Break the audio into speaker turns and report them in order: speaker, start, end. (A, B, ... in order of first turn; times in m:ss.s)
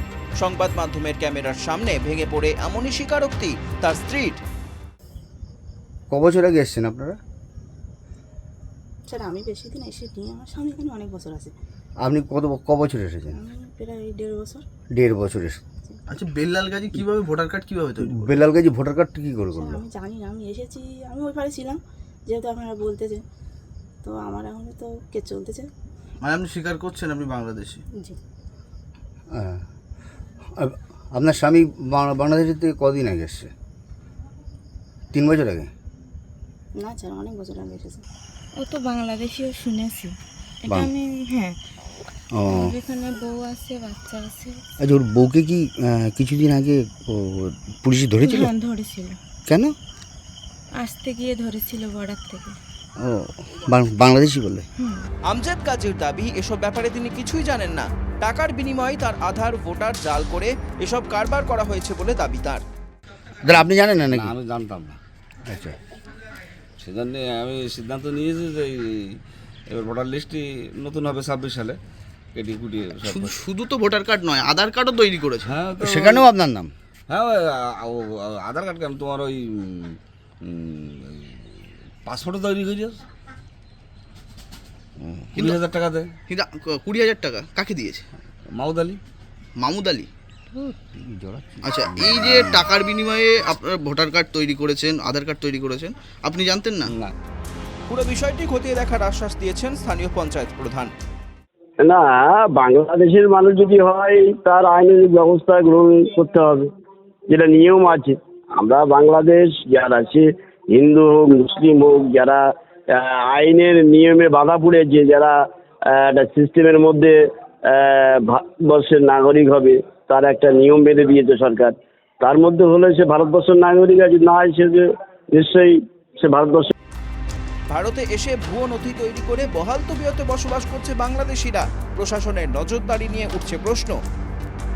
0:00.4-0:04.4 A
0:06.1-0:07.2 B
0:09.1-0:11.5 C
0:12.0-0:13.4 B
0:13.4-0:14.6 C
0:14.9-0:15.6 B
0:16.1-0:18.4 D
0:18.0-0:19.8 B
0:19.6-0:23.2 C
0:24.0-0:25.7 C
0:26.2-0:27.8 D
0:29.3-0:29.6 B
0:30.6-0:33.5 B
0:35.1-0:35.7 B
0:36.8-0:38.0 C
0:38.6-0:41.6 E
0:40.7-0:40.9 B
0:42.3-0:42.8 B
0:42.5-0:44.6 E
0:44.8-0:48.5 B
0:48.2-0:49.2 E
0:49.5-0:49.7 B
0:50.8-0:52.6 E
0:53.0-0:54.7 B
0:55.3-1:02.6 A
1:03.4-1:04.4 B
1:04.1-1:05.0 F
1:05.4-1:05.8 B
1:06.8-1:11.8 F
1:12.4-1:13.4 F
1:13.0-1:15.5 D
1:15.4-1:16.3 F
1:15.8-1:16.7 B
1:17.1-1:21.5 F
1:22.0-1:23.0 F
1:25.0-1:25.2 B
1:25.3-1:25.6 D
1:25.4-1:26.1 F
1:26.3-1:28.0 D
1:28.5-1:29.0 F
1:29.6-1:30.1 D
1:30.5-1:32.7 B
1:31.6-1:36.9 D
1:36.9-1:37.1 F
1:37.9-1:40.9 A
1:41.8-1:46.7 G
1:47.3-1:55.4 G
1:55.9-2:06.7 G
2:07.7-2:14.0 A